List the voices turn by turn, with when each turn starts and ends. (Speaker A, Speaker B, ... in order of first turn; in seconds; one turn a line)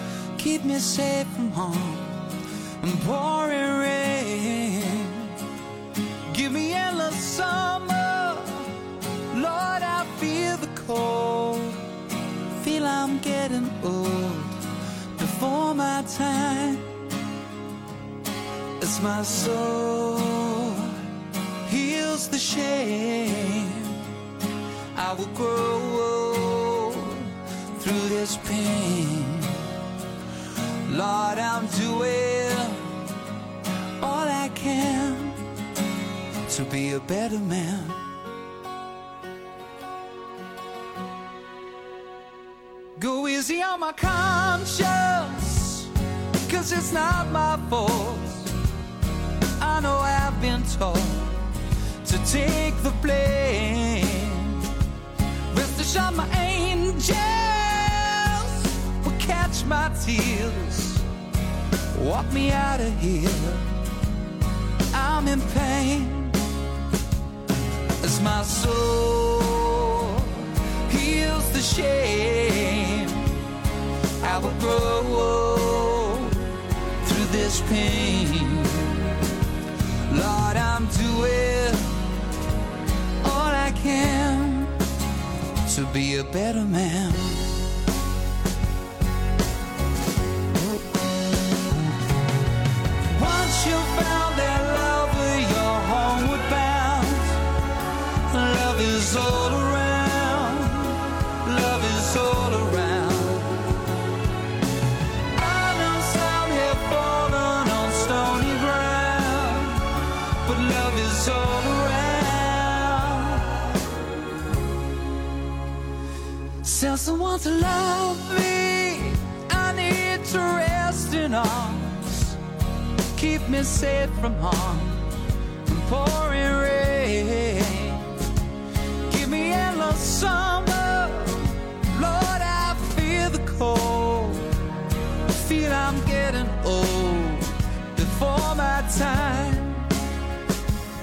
Speaker A: 0.4-5.4
Speaker A: 6.3-8.8
Speaker A: 9.3-11.8
Speaker A: 12.6-16.9
Speaker A: 18.8-21.0
Speaker A: 21.6-24.0
Speaker A: 24.9-29.7
Speaker A: 30.9-33.0
Speaker A: 34.0-35.4
Speaker A: 36.5-38.0
Speaker A: 43.0-45.9
Speaker A: 46.4-48.5
Speaker A: 49.6-54.7
Speaker A: 55.5-61.0
Speaker A: 61.9-63.8
Speaker A: 64.9-66.4
Speaker A: 68.0-73.4
Speaker A: 74.2-79.1
Speaker A: 80.1-82.1
Speaker A: 83.2-84.8
Speaker A: 85.6-87.6
Speaker A: 93.0-97.5
Speaker A: 98.3-103.8
Speaker A: 105.3-113.7
Speaker A: 116.6-122.4
Speaker A: 123.1-125.1
Speaker A: 125.7-128.3
Speaker A: 129.1-134.6
Speaker A: 135.3-139.9